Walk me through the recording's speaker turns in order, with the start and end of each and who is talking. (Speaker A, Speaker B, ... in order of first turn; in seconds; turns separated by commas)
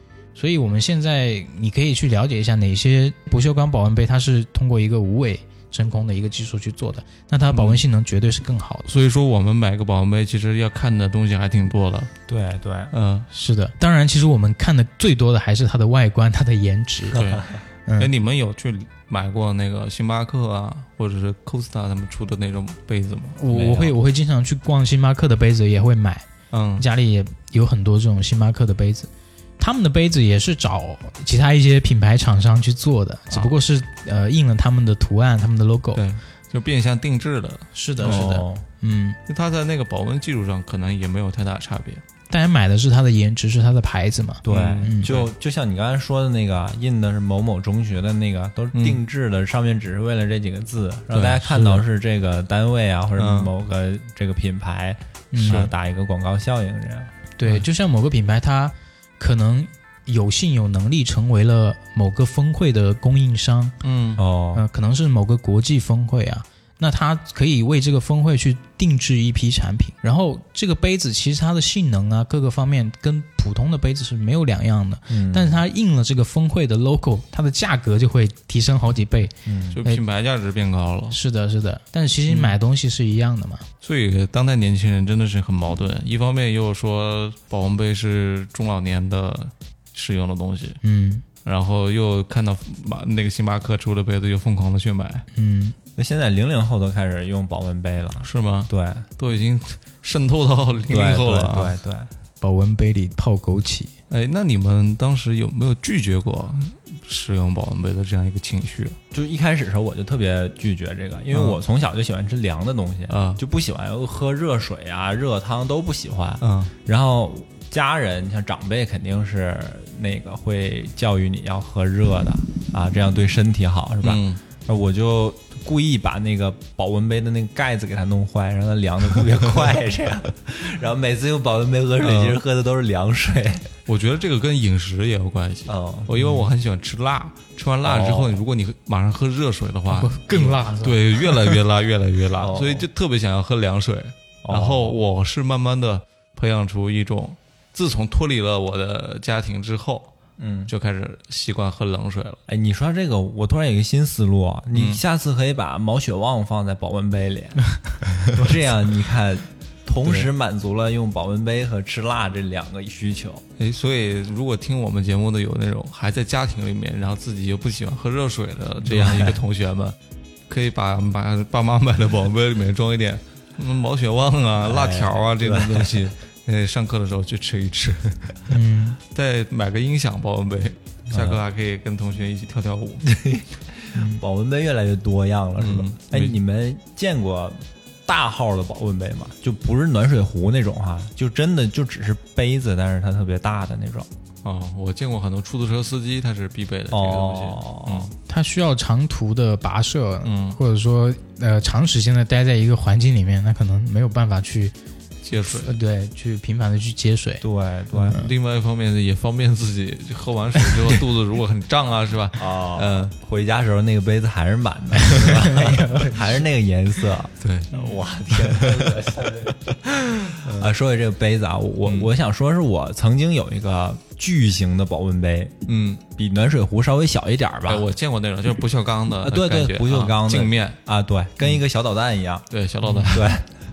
Speaker A: 0.3-8.9, Speaker B: 7.5-7.8, Speaker B: 8.9-12.1, Speaker C: 12.3-12.9, Speaker B: 12.9-13.3, Speaker A: 13.3-17.2, Speaker B: 17.1-23.9, Speaker C: 17.2-17.4, Speaker A: 23.4-36.0, Speaker B: 26.5-26.9, Speaker B: 36.0-38.4, Speaker A: 37.7-39.2, Speaker C: 38.0-38.6, Speaker B: 39.3-42.0, Speaker A: 42.3-45.1, Speaker C: 44.4-57.1, Speaker B: 44.5-45.3, Speaker B: 48.7-49.0, Speaker B: 51.1-51.9, Speaker B: 53.2-53.5, Speaker A: 55.3-55.7, Speaker B: 55.5-55.7, Speaker A: 57.4-63.8, Speaker B: 63.8-64.2, Speaker C: 64.2-64.7, Speaker A: 64.5-79.3, Speaker C: 75.1-75.6, Speaker C: 79.5-79.8, Speaker B: 79.7-81.2, Speaker A: 81.1-83.7, Speaker B: 83.8-90.8, Speaker A: 90.8-91.2, Speaker B: 91.5-95.3, Speaker A: 95.3-95.8, Speaker C: 96.0-99.1, Speaker B: 98.2-101.7, Speaker C: 100.9-102.1, Speaker A: 102.4-103.9, Speaker B: 104.1-109.0, Speaker C: 109.1-133.7, Speaker B: 111.3-111.6, Speaker B: 113.1-113.4, Speaker B: 116.4-116.7, Speaker B: 124.0-124.4, Speaker B: 132.0-132.4, Speaker B: 133.9-150.1, Speaker C: 135.7-136.5, Speaker C: 137.8-138.4, Speaker A: 139.9-141.6, Speaker C: 142.4-142.9, Speaker C: 144.4-145.0, Speaker C: 150.4-150.7, Speaker B: 150.7-152.4, Speaker C: 152.5-163.4, Speaker B: 154.7-155.0, Speaker B: 160.0-160.3, Speaker B: 163.6-170.0, Speaker C: 168.8-169.4, Speaker B: 170.5-178.4, Speaker C: 174.6-176.1, Speaker A: 178.5-179.0, Speaker B: 179.0-183.1, Speaker C: 181.1-181.4, Speaker C: 183.0-194.1, Speaker A: 183.9-184.2, Speaker B: 185.6-186.4, Speaker B: 194.4-198.1, Speaker C: 196.9-198.1, Speaker A: 198.3-204.7, Speaker B: 200.2-200.6, Speaker B: 205.2-205.7, Speaker A: 205.5-207.4, Speaker C: 207.4-208.2, Speaker B: 208.0-213.1, Speaker C: 212.4-225.6, Speaker A: 215.0-216.2, Speaker B: 217.4-219.0, Speaker B: 220.2-220.8, Speaker B: 225.7-226.0, Speaker C: 226.1-227.9, Speaker B: 227.7-230.8, Speaker C: 229.2-232.4, Speaker B: 232.5-233.4, Speaker C: 233.0-233.5